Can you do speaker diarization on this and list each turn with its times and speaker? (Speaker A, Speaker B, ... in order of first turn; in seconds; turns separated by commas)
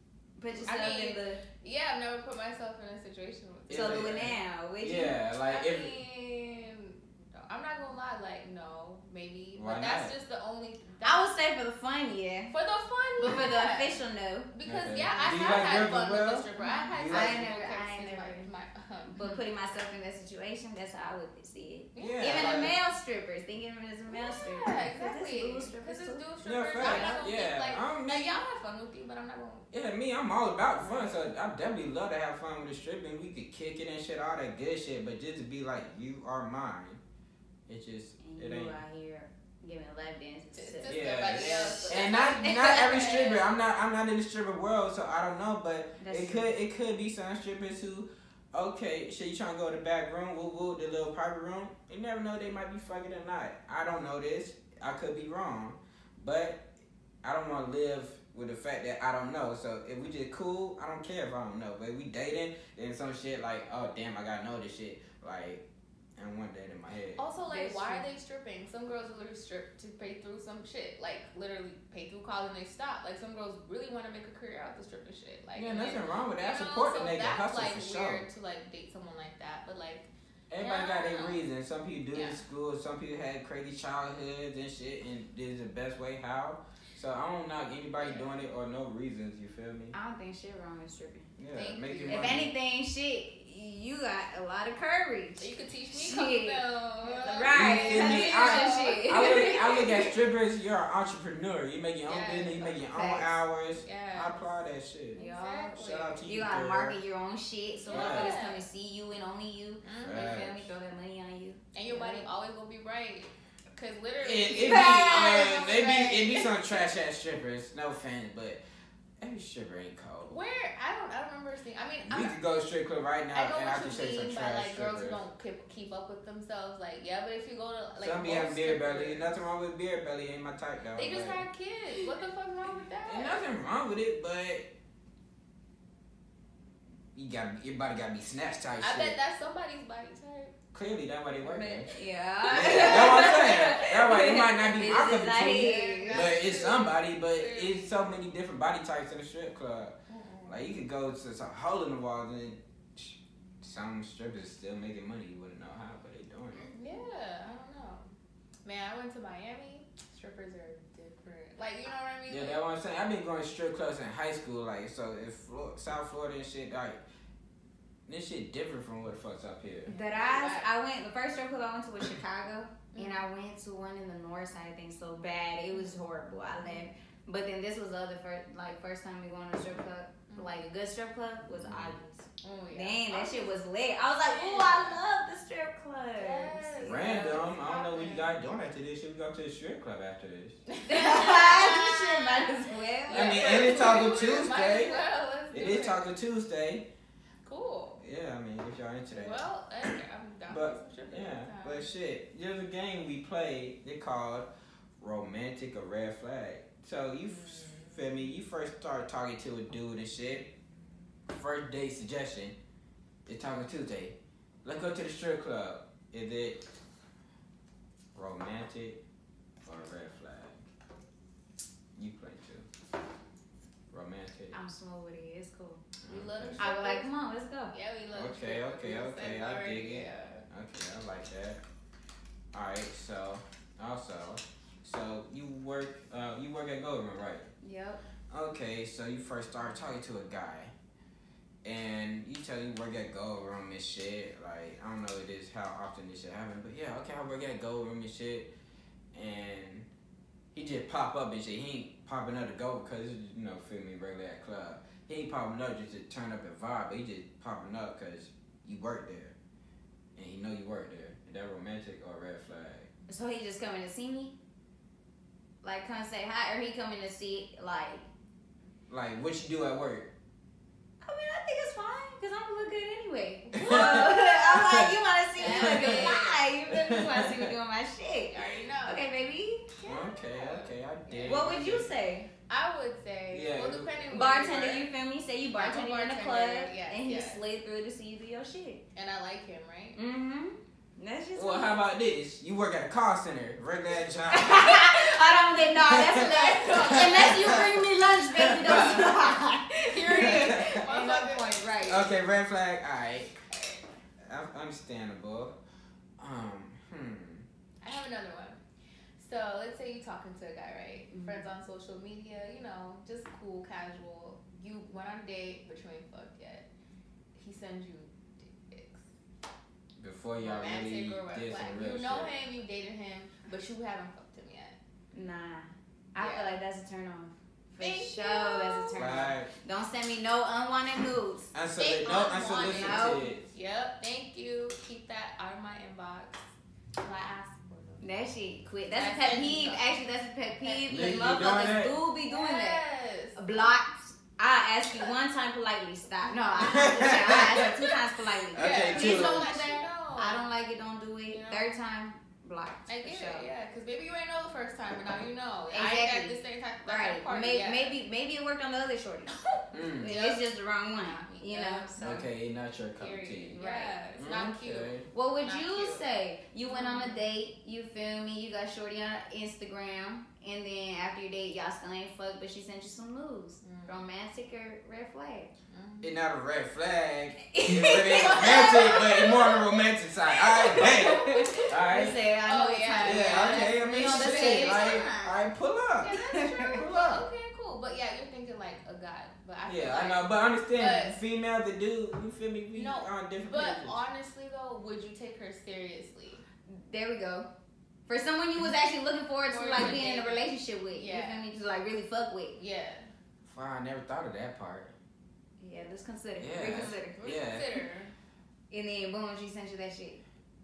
Speaker A: 0.4-1.4, Speaker B: 0.6-4.2, Speaker C: 3.7-5.9, Speaker A: 3.7-5.2, Speaker B: 5.4-11.3, Speaker C: 9.5-10.1, Speaker A: 11.0-12.5, Speaker B: 12.5-13.9, Speaker A: 13.2-14.5, Speaker B: 14.5-19.4, Speaker C: 14.6-17.4, Speaker A: 16.6-18.5, Speaker A: 19.1-26.2, Speaker B: 21.9-22.7, Speaker C: 22.0-22.7, Speaker B: 24.1-29.7, Speaker C: 26.4-28.4, Speaker A: 26.8-27.2, Speaker C: 29.7-37.0, Speaker C: 37.7-38.8, Speaker A: 38.2-42.9, Speaker B: 40.5-43.4, Speaker C: 40.9-56.6, Speaker A: 46.0-46.5, Speaker C: 57.2-65.6, Speaker C: 66.2-67.2, Speaker B: 67.2-81.4, Speaker A: 67.4-68.0, Speaker C: 75.5-78.2, Speaker C: 80.5-89.9, Speaker B: 82.1-82.4, Speaker B: 88.0-88.2, Speaker A: 89.9-91.3, Speaker C: 91.4-92.5, Speaker B: 91.5-92.4, Speaker A: 92.1-100.1, Speaker B: 95.4-100.0, Speaker C: 97.5-105.2, Speaker B: 102.0-102.8, Speaker A: 102.9-103.3, Speaker B: 103.8-104.3, Speaker A: 105.1-112.3, Speaker B: 105.2-106.2, Speaker C: 105.7-107.0, Speaker B: 107.8-108.6, Speaker C: 107.9-108.4, Speaker B: 109.8-110.5, Speaker C: 110.0-110.7, Speaker B: 111.7-116.6, Speaker C: 114.2-118.6, Speaker A: 114.7-115.5, Speaker C: 119.2-120.4, Speaker B: 120.3-122.3, Speaker C: 122.0-125.2, Speaker B: 123.3-129.3, Speaker C: 128.0-131.4, Speaker B: 130.9-133.4, Speaker C: 133.1-134.7, Speaker C: 137.1-139.2, Speaker B: 138.8-140.5, Speaker C: 140.7-141.9, Speaker A: 141.4-146.3, Speaker B: 142.4-143.8, Speaker C: 142.5-149.9, Speaker B: 144.8-147.9, Speaker B: 150.1-150.8, Speaker C: 150.5-156.7, Speaker B: 156.7-158.1, Speaker B: 158.6-162.6, Speaker C: 162.3-167.0, Speaker C: 168.1-169.9, Speaker B: 169.8-170.7, Speaker A: 169.9-187.0, Speaker B: 172.9-173.2, Speaker B: 175.7-176.0, Speaker B: 176.5-176.8, Speaker B: 180.3-180.7, Speaker C: 181.5-181.9, Speaker B: 182.4-183.5, Speaker B: 184.2-185.0, Speaker B: 186.2-188.3, Speaker C: 186.8-190.6, Speaker B: 190.7-192.5, Speaker A: 190.8-194.1, Speaker B: 193.1-196.0, Speaker C: 193.1-196.8, Speaker B: 197.4-198.0, Speaker C: 198.0-199.9, Speaker B: 199.1-201.9, Speaker C: 200.5-204.5, Speaker C: 205.0-210.5, Speaker B: 207.3-208.0, Speaker C: 211.3-212.5, Speaker C: 213.3-216.6, Speaker C: 218.1-219.0, Speaker C: 219.6-220.6, Speaker C: 221.9-222.7, Speaker C: 223.9-224.6, Speaker A: 224.5-225.8, Speaker C: 226.0-226.6, Speaker B: 226.1-227.1, Speaker A: 226.6-227.7, Speaker B: 227.7-230.4, Speaker C: 228.1-231.6, Speaker C: 232.5-237.5, Speaker A: 237.6-238.0, Speaker C: 238.3-240.7, Speaker C: 241.6-248.5, Speaker C: 249.1-249.9, Speaker C: 250.5-259.4, Speaker C: 260.1-262.9, Speaker A: 263.1-264.4, Speaker A: 265.6-268.1, Speaker C: 268.9-270.1, Speaker A: 271.0-279.6, Speaker B: 273.5-274.1, Speaker C: 273.5-276.1, Speaker B: 275.4-276.4, Speaker C: 276.7-277.5, Speaker B: 278.3-279.0, Speaker B: 279.7-281.5, Speaker C: 279.9-281.9, Speaker A: 281.2-282.3, Speaker B: 282.5-284.9, Speaker C: 283.3-283.9, Speaker A: 284.1-288.8, Speaker B: 285.5-287.4, Speaker B: 288.9-290.0, Speaker A: 289.9-291.7, Speaker C: 291.3-295.0, Speaker A: 294.3-302.1, Speaker C: 295.8-297.8, Speaker B: 296.1-297.7, Speaker C: 298.3-299.2, Speaker B: 298.6-301.6, Speaker C: 300.1-300.8, Speaker C: 301.8-303.3, Speaker B: 303.5-303.8, Speaker C: 304.2-305.5, Speaker C: 306.2-307.4, Speaker B: 307.8-308.6, Speaker B: 309.2-316.7, Speaker A: 311.1-311.4, Speaker B: 317.4-319.0, Speaker C: 320.0-322.3, Speaker B: 320.4-324.8, Speaker A: 325.1-331.5, Speaker B: 326.2-326.5, Speaker B: 327.8-329.1, Speaker C: 328.9-329.5, Speaker C: 331.5-333.5, Speaker B: 331.8-336.4, Speaker A: 332.5-333.3, Speaker B: 337.0-338.1, Speaker A: 338.0-342.8, Speaker B: 338.9-340.0, Speaker B: 340.6-341.4, Speaker C: 340.9-341.9, Speaker B: 342.2-343.6, Speaker A: 343.4-353.5, Speaker B: 346.2-347.9, Speaker C: 346.6-347.7, Speaker C: 348.5-349.5, Speaker B: 348.5-350.4, Speaker B: 351.3-351.7, Speaker B: 352.9-357.9, Speaker A: 355.7-362.2, Speaker C: 359.7-360.1, Speaker B: 360.0-362.2, Speaker C: 362.0-363.6, Speaker B: 363.0-366.0, Speaker A: 363.6-364.0, Speaker C: 364.2-365.1, Speaker A: 365.1-375.5, Speaker B: 366.6-367.2, Speaker B: 373.6-374.0, Speaker B: 375.7-376.1, Speaker C: 376.0-382.2, Speaker A: 377.5-379.6, Speaker B: 378.2-379.3, Speaker A: 380.5-385.4, Speaker B: 380.5-381.7, Speaker B: 382.4-385.1, Speaker C: 383.0-386.1, Speaker B: 386.0-391.2, Speaker A: 386.1-386.8, Speaker C: 386.7-387.2, Speaker C: 389.6-394.0, Speaker B: 392.7-396.4, Speaker A: 396.7-397.5, Speaker A: 398.1-402.6, Speaker B: 399.5-401.4, Speaker C: 399.8-400.0, Speaker B: 402.6-403.1, Speaker C: 403.4-404.9, Speaker A: 405.6-407.3, Speaker C: 406.4-407.7, Speaker B: 407.1-408.1, Speaker A: 408.7-410.2